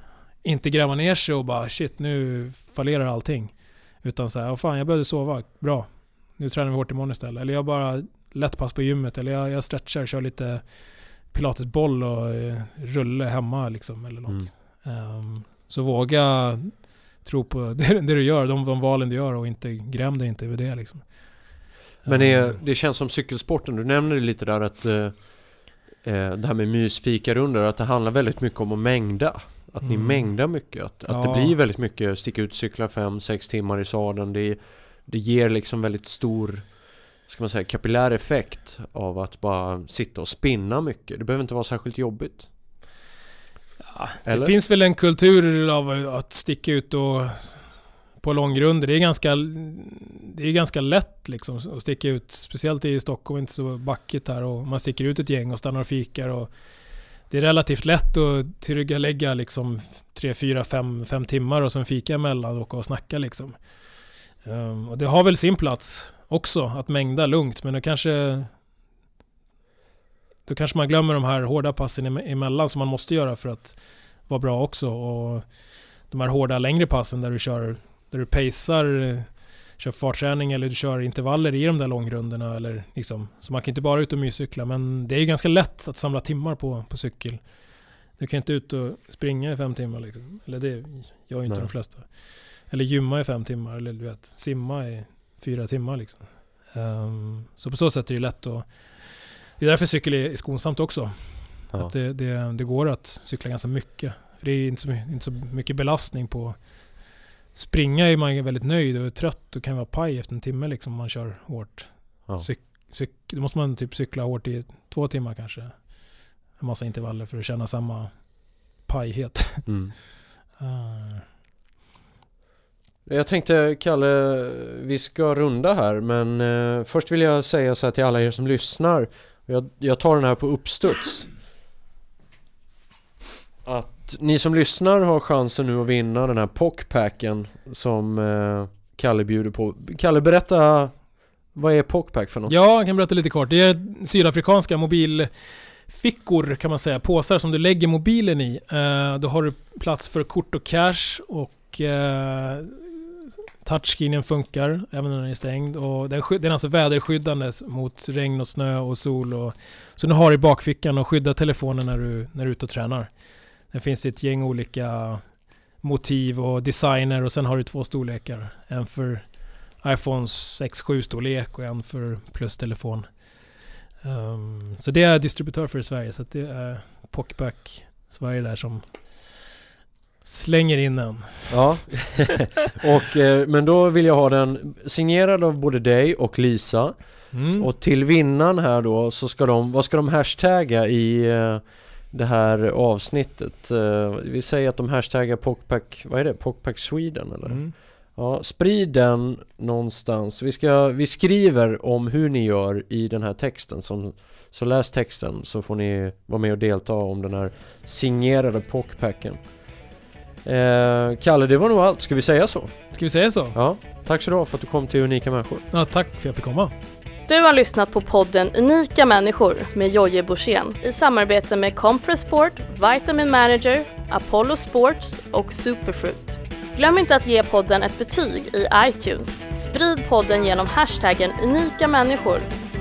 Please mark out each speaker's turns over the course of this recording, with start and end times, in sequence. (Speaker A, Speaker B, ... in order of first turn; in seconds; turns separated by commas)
Speaker A: 0.4-21.1, Speaker A: 22.0-22.6, Speaker B: 22.1-42.5, Speaker A: 29.8-30.5, Speaker A: 31.1-31.6, Speaker A: 43.9-56.5, Speaker B: 44.2-44.5, Speaker A: 57.3-63.6, Speaker A: 64.4-68.5, Speaker A: 70.5-75.5, Speaker A: 76.1-87.4, Speaker A: 88.2-106.6, Speaker A: 107.5-116.0, Speaker A: 116.5-118.2, Speaker A: 118.8-119.8, Speaker B: 119.7-120.0, Speaker A: 120.6-121.3, Speaker B: 123.1-131.3, Speaker B: 133.7-142.5, Speaker A: 142.5-163.1, Speaker A: 163.7-165.3, Speaker A: 165.8-173.1, Speaker A: 174.0-179.4, Speaker A: 180.2-181.9, Speaker B: 181.5-209.7, Speaker A: 187.3-187.7, Speaker A: 197.4-197.8, Speaker B: 210.4-212.9, Speaker A: 212.9-213.6, Speaker B: 213.5-215.7, Speaker A: 215.7-216.7, Speaker C: 217.3-232.5